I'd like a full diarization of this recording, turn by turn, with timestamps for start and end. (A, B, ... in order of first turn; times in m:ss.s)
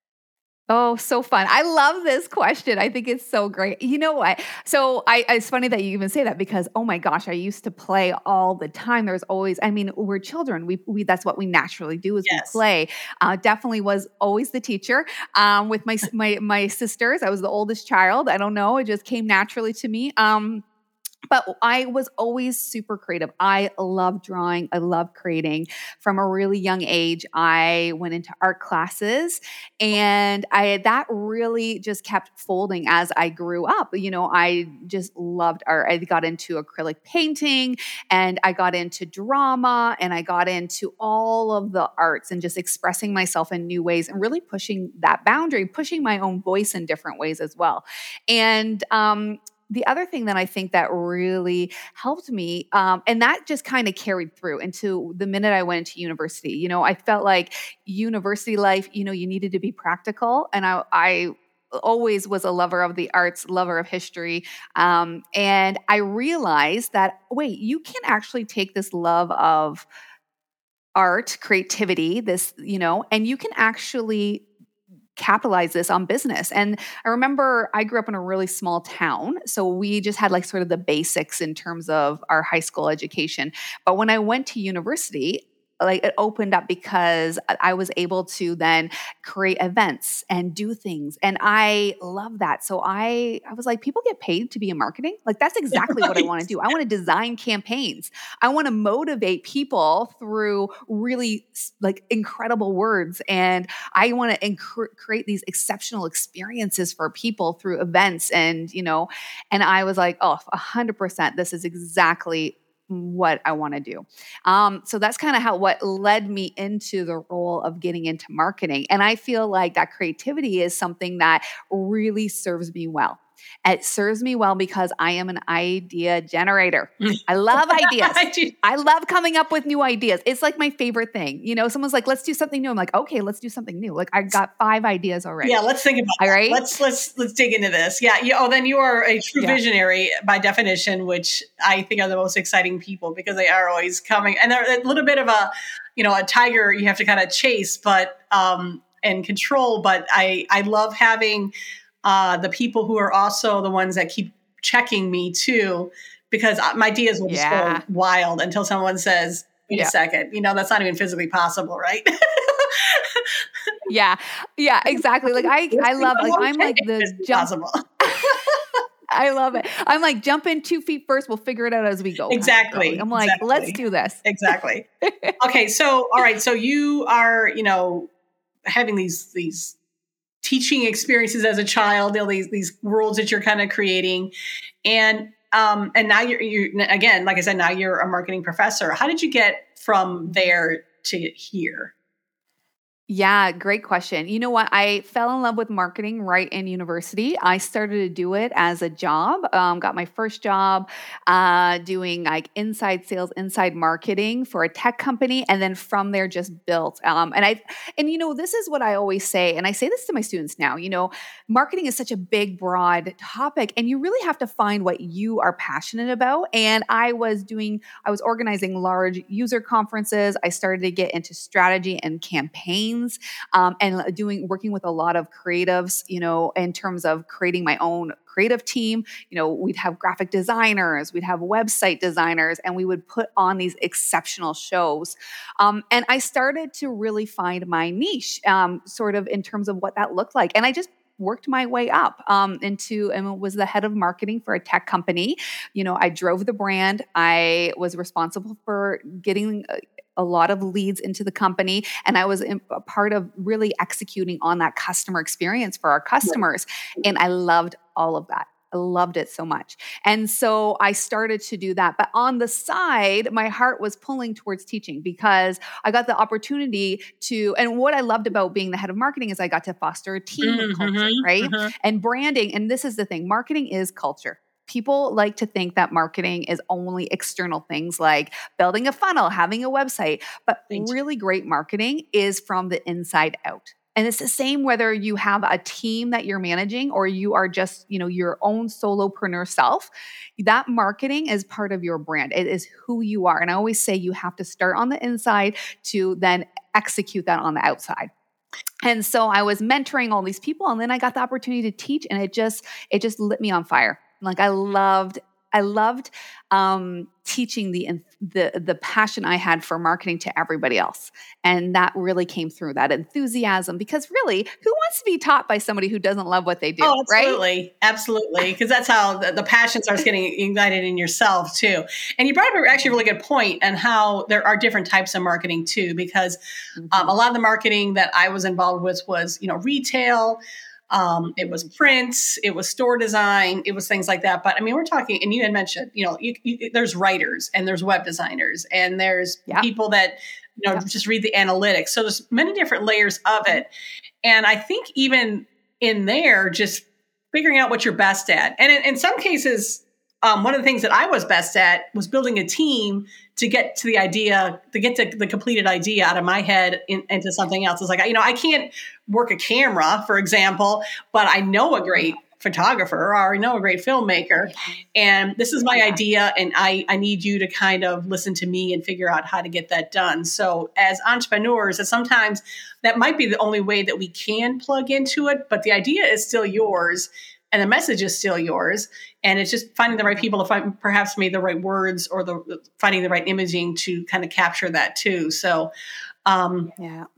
0:00.7-0:20.6 A
0:12.3-0:12.6 B
0:21.3-1:09.9 A
1:11.0-1:14.4 A
1:15.2-2:15.6 A
1:35.8-1:36.3 B
2:07.0-2:08.5 B
2:15.4-2:31.5 B
2:16.2-2:16.7 A
2:32.0-2:43.7 B
2:37.3-2:37.8 A
2:43.9-2:47.5 A
2:45.0-2:48.6 B
2:48.0-2:48.4 A
2:49.1-2:54.2 A
2:52.3-2:54.9 B
2:55.0-2:55.3 A
2:55.4-2:58.1 B
2:58.7-2:59.8 B
3:00.4-3:04.3 B
3:04.8-3:11.9 B
3:13.1-4:58.1 A
4:30.4-4:31.7 B
4:58.8-5:17.4 A
5:16.8-5:26.4 B
5:26.8-5:27.1 A
5:26.9-5:43.7 B
5:31.5-5:31.9 A
5:44.2-6:25.7 B
6:04.4-6:04.8 A
6:05.7-6:06.0 A
6:19.9-6:20.3 A
6:26.3-6:26.7 B
6:26.8-6:27.1 A